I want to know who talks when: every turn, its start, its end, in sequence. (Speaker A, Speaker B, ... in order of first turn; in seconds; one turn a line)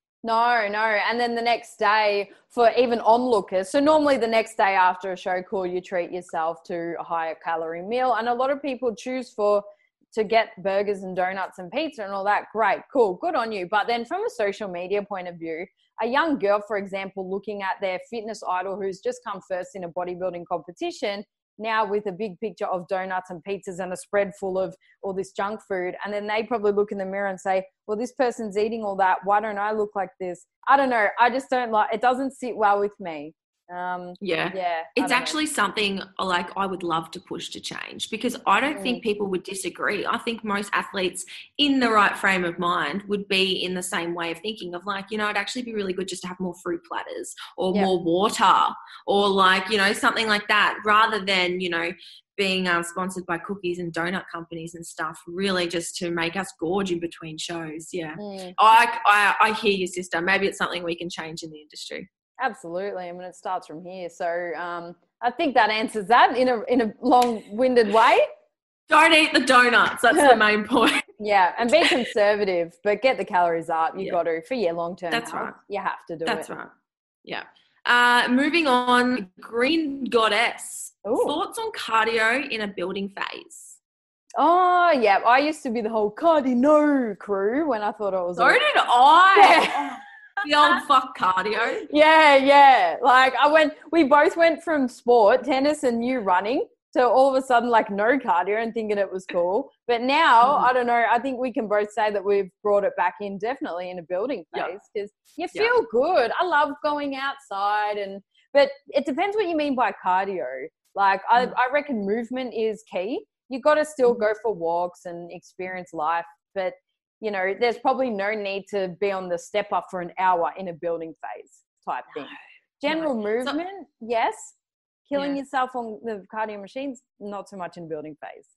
Speaker A: 0.2-35.4
Speaker B: 34.2-62.1
Speaker A: 38.7-39.0
Speaker A: 58.2-58.5
Speaker A: 62.4-68.3
Speaker B: 68.9-71.0
Speaker A: 70.1-70.4
Speaker A: 71.2-76.5
Speaker B: 75.1-75.6
Speaker B: 76.2-76.7
Speaker B: 77.2-83.8
Speaker A: 81.0-81.3
Speaker A: 84.4-88.6
Speaker B: 88.3-91.9
Speaker A: 89.3-90.0
Speaker A: 91.8-124.5
Speaker B: 100.4-100.7
Speaker B: 122.9-123.6
Speaker A: 125.1-128.5